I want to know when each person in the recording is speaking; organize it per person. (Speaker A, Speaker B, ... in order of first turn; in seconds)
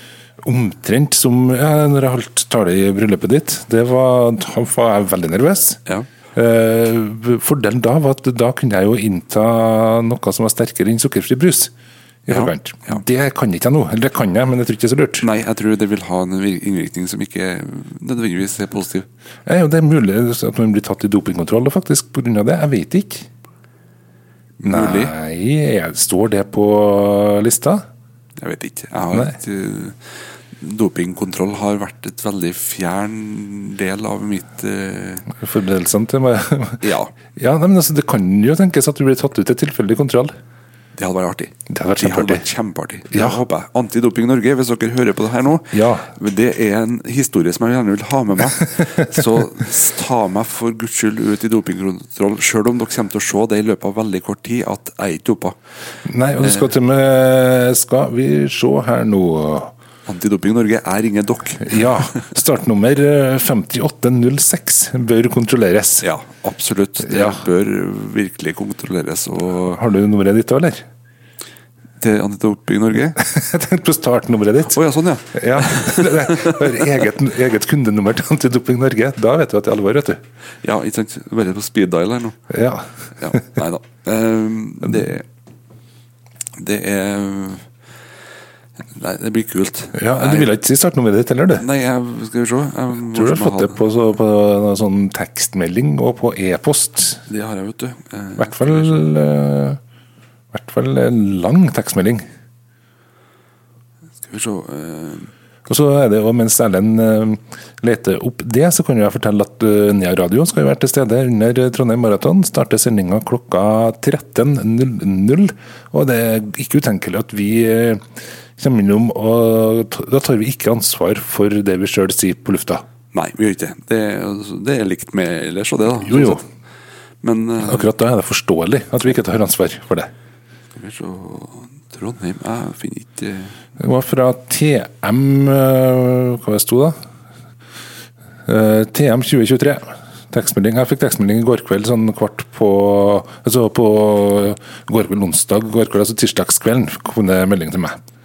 Speaker A: 0.4-5.8, 6.3-11.7, 12.3-15.3, 19.5-23.3, 24.6-27.9, 35.3-40.3, 41.7-42.5, 43.1-43.4, 45.7-46.1, 56.1-59.7, 61.6-66.0, 67.0-67.4, 69.5-70.8, 73.2-74.8, 75.3-80.2, 82.5-83.4, 90.0-91.7, 93.1-97.3, 98.4-99.8, 100.5-102.2, 105.7-118.0, 118.6-122.8, 126.0-126.4, 127.6-130.1, 133.8-137.0, 138.5-148.0
Speaker B: 12.3-13.0, 15.2-19.1, 24.6-25.1, 28.4-35.3, 36.8-37.1, 41.0-55.6, 56.4-56.7, 60.1-62.2, 66.0-69.8, 72.0-73.2, 74.7-76.9, 80.6-82.4, 83.2-85.3, 86.6-87.7, 88.9-90.5, 91.6-93.8, 97.3-99.0, 104.2-105.3, 123.1-126.5, 127.2-127.9, 130.7-133.6